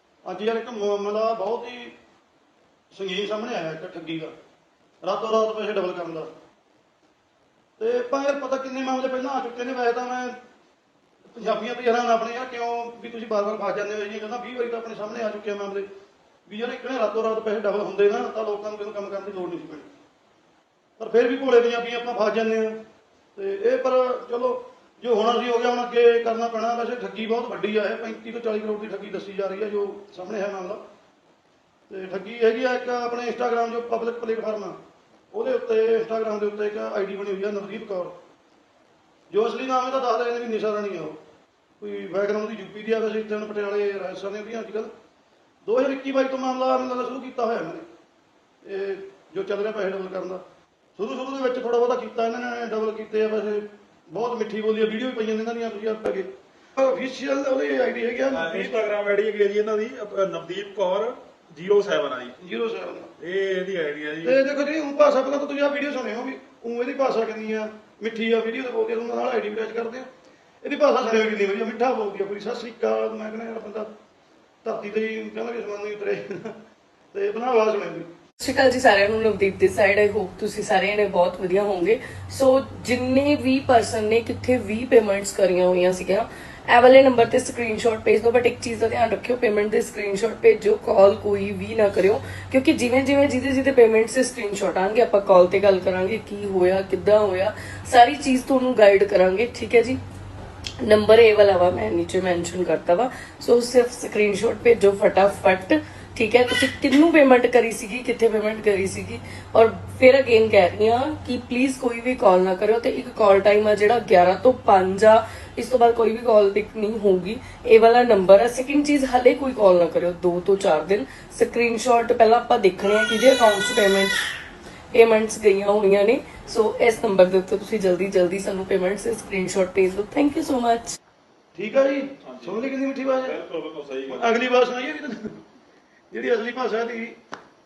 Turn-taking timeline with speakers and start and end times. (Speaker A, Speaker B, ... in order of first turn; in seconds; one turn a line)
Speaker A: 0.2-1.9
Speaker A: 2.9-4.3
Speaker A: 5.0-6.3
Speaker A: 7.8-10.3
Speaker A: 11.3-15.9
Speaker A: 16.5-19.9
Speaker A: 21.0-22.8
Speaker A: 23.4-30.8
Speaker A: 31.9-34.8
Speaker A: 35.3-38.2
Speaker A: 39.3-41.2
Speaker A: 41.8-44.9
Speaker A: 45.6-47.9
Speaker A: 48.6-50.4
Speaker A: 51.0-58.8
Speaker B: 58.3-62.4
Speaker A: 62.4-63.1
Speaker B: 63.2-64.4
Speaker A: 64.2-70.1
Speaker A: 70.6-73.9
Speaker A: 74.6-76.5
Speaker A: 77.1-78.1
Speaker C: 78.4-100.0
Speaker C: 100.8-124.1
Speaker C: 124.9-130.9
Speaker A: 131.5-133.3
Speaker B: 132.2-132.7
Speaker B: 133.2-134.4
Speaker A: 134.1-135.4
Speaker A: 136.1-137.2